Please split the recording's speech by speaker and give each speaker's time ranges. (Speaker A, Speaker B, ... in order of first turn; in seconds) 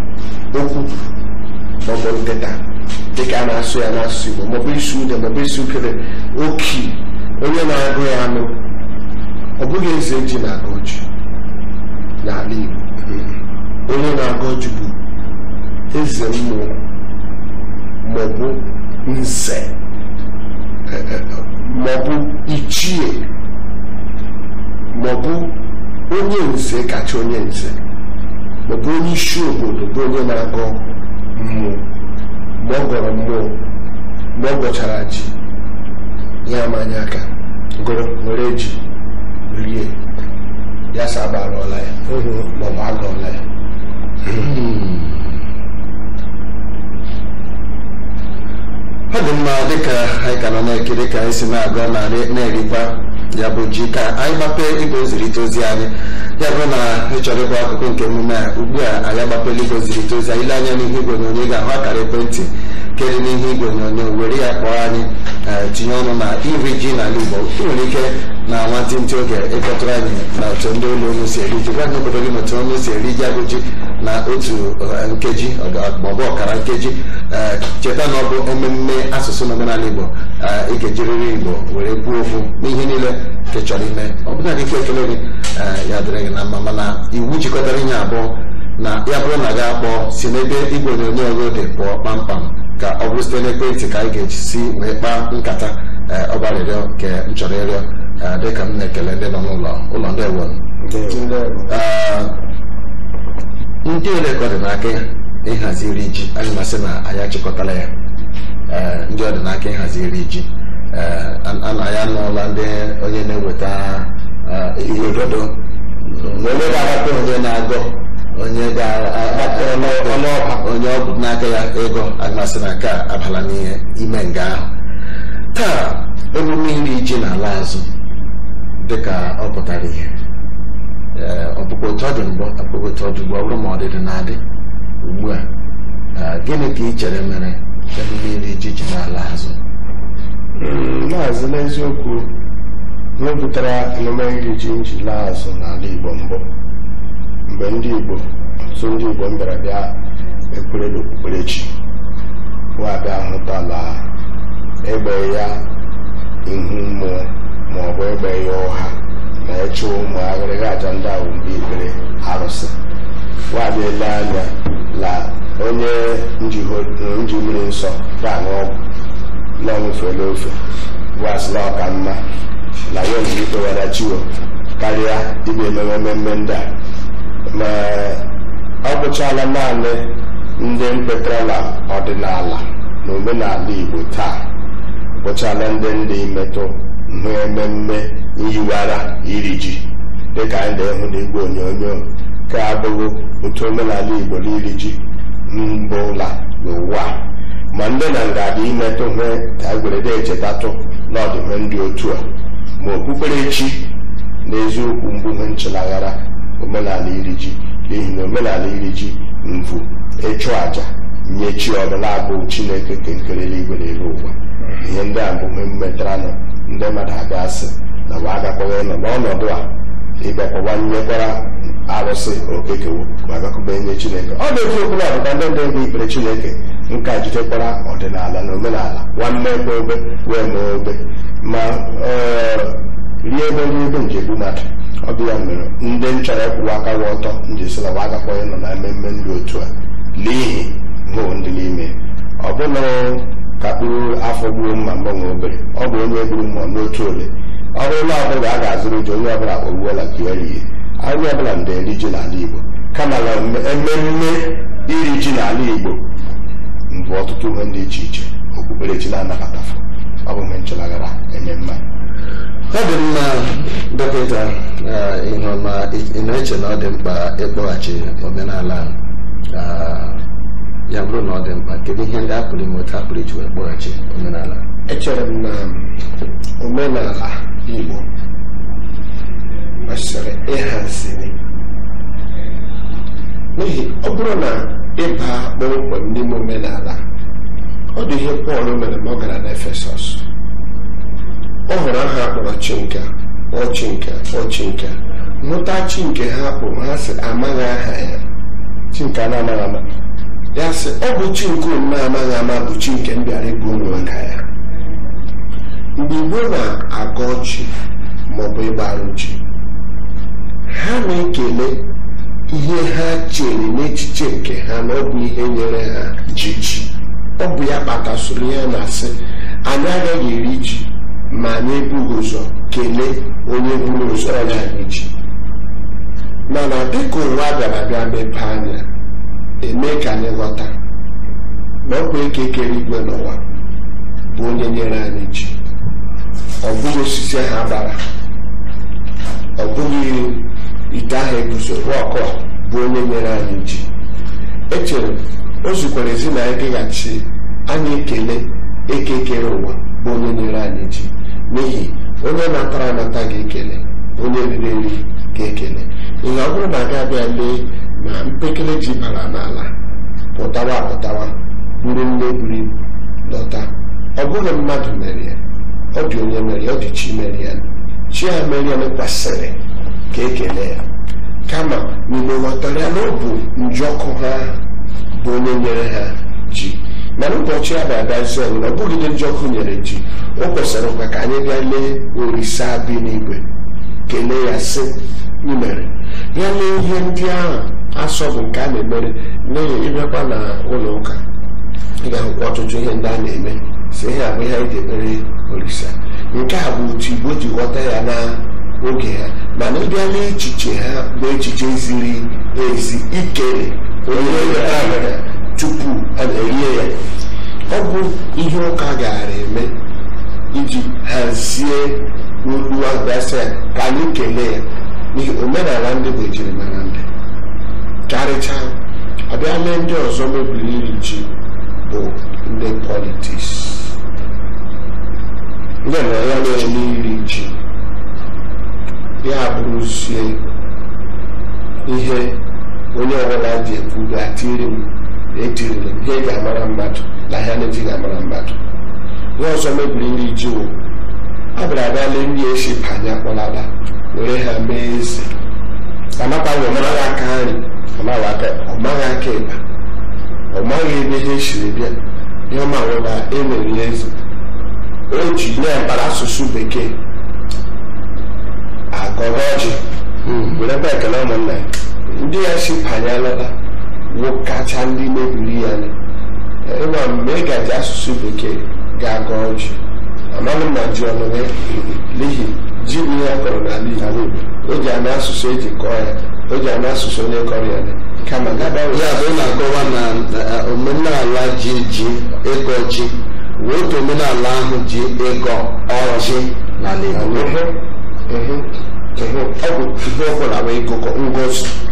Speaker A: 0.5-1.0, 1.8-2.6, 3.1-8.6, 9.6-11.0, 12.2-12.9, 13.9-14.9, 15.9-16.8, 18.0-19.7, 20.9-23.2, 24.9-25.6, 26.1-27.8, 28.7-30.8, 31.4-31.8, 32.6-33.6, 34.4-35.3, 36.5-37.3, 38.2-38.8, 39.5-40.0, 40.9-42.0, 42.5-43.4, 101.1-101.7, 274.9-275.9, 276.6-278.1, 279.9-281.3, 283.6-287.0, 288.0-290.2, 291.7-298.2, 300.6-304.4, 306.0-307.7, 308.3-309.4, 310.7-311.8, 312.5-316.4, 317.4-325.1, 326.5-328.9, 329.6-330.7, 331.9-333.4, 334.3-335.6, 336.6-338.0, 339.6-343.9, 344.7-359.7, 360.4-365.4, 365.9-369.6, 370.1-370.8, 371.5-374.6, 375.2-383.4, 384.1-391.2, 392.0-406.3, 407.7-409.7, 410.5-417.1, 418.1-418.8, 419.3-421.3, 421.8-423.9, 426.2-427.5, 429.2-430.4, 431.9-432.4, 432.9-438.6, 439.4-440.8, 441.6-445.3, 446.7-447.7, 448.7-449.6, 450.5-452.0, 452.5-454.1, 455.1-457.0, 458.9-459.8, 462.1-463.5, 464.1-465.9, 466.7-469.8, 470.3-479.2, 487.3-487.7, 488.3-491.8
Speaker B: 37.8-38.1, 42.1-42.5, 100.8-101.2, 114.8-115.3, 116.4-117.2, 119.3-120.7, 140.6-142.3, 143.2-146.4, 147.5-149.9, 150.5-151.7, 152.8-154.0, 154.8-155.6, 156.4-162.8, 163.5-168.8, 169.6-170.6, 171.2-172.2, 172.9-176.7, 177.5-178.2, 178.8-184.4, 185.2-189.8, 190.3-197.2, 197.7-202.2, 202.8-203.9, 204.4-219.7, 220.2-256.0, 256.9-261.8, 298.9-299.8, 316.4-316.7, 404.1-405.1, 406.2-406.9, 425.8-426.9, 446.2-447.1, 448.0-448.6, 460.2-461.7, 487.1-487.6
Speaker C: 44.4-45.3, 49.1-100.6, 101.7-102.3, 103.8-107.9, 108.7-115.5, 116.1-124.7, 125.5-127.8, 128.8-130.1, 131.2-134.4, 135.0-135.4, 136.2-139.6, 262.7-268.9, 269.5-270.2, 270.9-274.6, 478.7-487.4